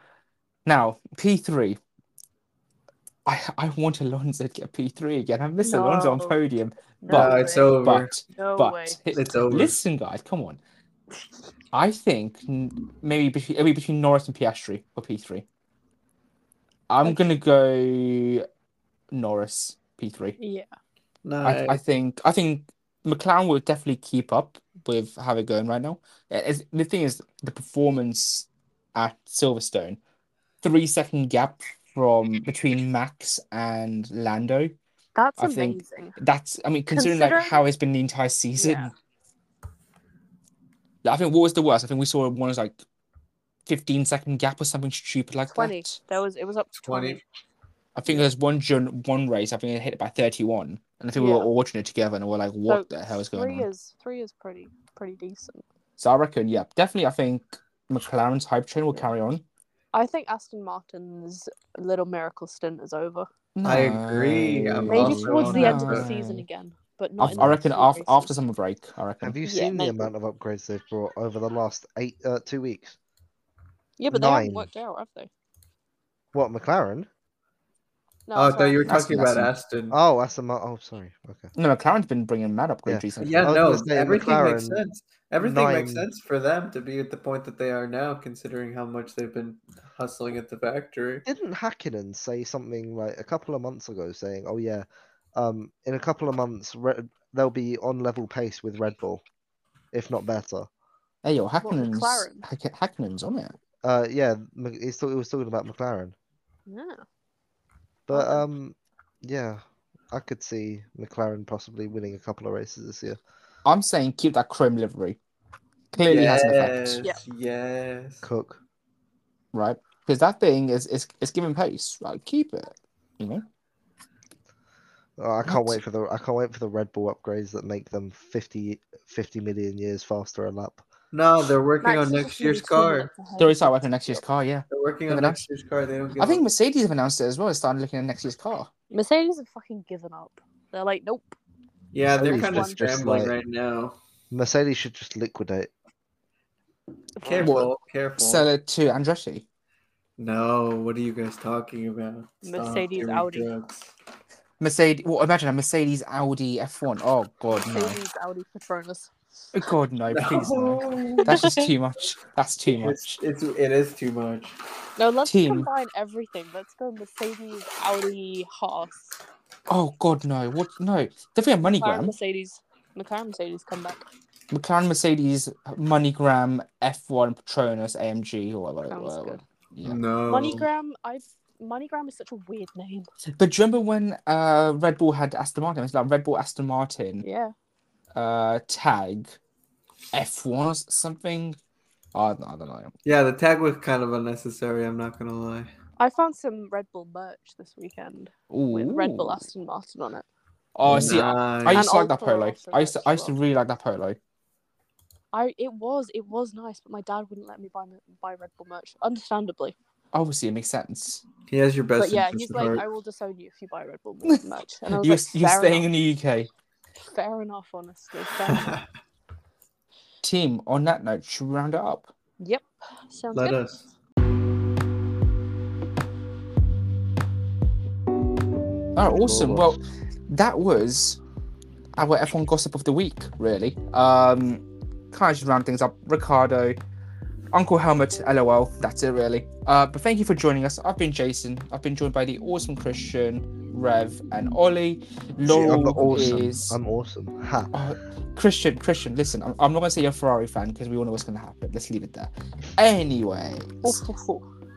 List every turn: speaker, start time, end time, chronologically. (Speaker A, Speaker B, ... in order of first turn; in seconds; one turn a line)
Speaker A: 0.7-1.8
Speaker A: 3.2-10.6
Speaker B: 5.6-6.4
Speaker B: 7.0-7.8
Speaker C: 7.1-8.1
Speaker B: 8.3-9.0
Speaker C: 9.1-9.8
Speaker A: 11.7-15.4
Speaker A: 16.9-18.4
Speaker A: 19.1-20.4
Speaker B: 20.4-20.7
Speaker C: 21.2-21.8
Speaker A: 21.4-30.0
Speaker A: 30.6-34.7
Speaker B: 35.1-36.2
Speaker A: 35.4-38.9
Speaker B: 36.9-37.6
Speaker B: 38.6-38.9
Speaker A: 41.0-42.8
Speaker A: 43.7-46.0
Speaker B: 45.5-47.2
Speaker C: 46.8-47.2
Speaker A: 48.0-53.7
Speaker B: 51.1-51.5
Speaker B: 52.7-55.6
Speaker A: 56.0-59.4
Speaker B: 59.9-63.3
Speaker A: 63.6-66.5
Speaker C: 63.6-66.1
Speaker B: 64.9-68.3
Speaker D: 65.0-65.2
Speaker A: 67.2-69.4
Speaker D: 69.2-73.0
Speaker B: 69.5-70.1
Speaker B: 74.0-75.3
Speaker D: 74.1-74.7
Speaker D: 76.3-77.1
Speaker B: 78.3-78.8
Speaker C: 78.3-80.0
Speaker A: 78.8-79.5
Speaker D: 79.9-81.5
Speaker A: 81.5-83.5
Speaker D: 82.9-84.8
Speaker C: 83.2-91.3
Speaker D: 85.4-86.1
Speaker D: 91.3-99.2
Speaker D: 99.9-100.7
Speaker A: 101.2-103.6
Speaker B: 101.6-102.5
Speaker D: 103.8-106.2
Speaker B: 106.7-107.0
Speaker D: 108.1-113.2
Speaker B: 108.1-108.4
Speaker A: 113.7-115.2
Speaker A: 115.9-117.1
Speaker C: 116.1-118.2
Speaker D: 118.2-118.6
Speaker A: 119.5-123.5
Speaker D: 125.2-130.8
Speaker A: 125.5-125.8
Speaker C: 131.1-133.1
Speaker B: 131.8-134.2
Speaker A: 133.4-135.4
Speaker C: 134.7-136.4
Speaker A: 136.2-138.7
Speaker B: 138.9-141.4
Speaker C: 141.9-144.0
Speaker D: 142.1-143.4
Speaker B: 142.3-143.0
Speaker D: 144.3-145.7
Speaker B: 147.2-147.5
Speaker C: 147.2-148.5
Speaker A: 147.4-149.4
Speaker C: 150.2-153.9
Speaker B: 152.4-153.5
Speaker A: 154.6-158.0
Speaker B: 157.7-159.1
Speaker A: 159.5-163.2
Speaker C: 160.1-161.6
Speaker B: 161.2-161.6
Speaker C: 162.7-164.6
Speaker B: 165.0-169.2
Speaker A: 165.2-165.7
Speaker A: 169.7-172.2
Speaker B: 171.7-174.0
Speaker A: 174.5-180.0
Speaker B: 178.9-179.4
Speaker C: 179.8-180.7
Speaker B: 180.3-183.1
Speaker A: 183.4-187.3
Speaker B: 187.2-187.5
Speaker A: 188.1-189.4
Speaker A: 190.1-191.6
Speaker A: 192.1-192.9
Speaker C: 193.1-195.7
Speaker B: 196.0-200.3
Speaker A: 198.5-199.5
Speaker A: 200.8-204.2
Speaker C: 200.8-201.9
Speaker D: 200.9-201.2
Speaker B: 201.7-203.3
Speaker B: 205.3-209.8
Speaker A: 210.1-211.2
Speaker C: 211.5-212.9
Speaker B: 212.0-215.9
Speaker A: 215.0-216.5
Speaker B: 217.0-218.8
Speaker C: 218.5-218.8
Speaker A: 220.2-222.1
Speaker B: 222.4-223.6
Speaker C: 223.3-223.9
Speaker A: 229.0-231.2
Speaker D: 229.1-229.7
Speaker A: 231.9-236.8
Speaker A: 237.5-246.8
Speaker D: 245.4-247.7
Speaker A: 247.7-254.0
Speaker B: 253.8-254.4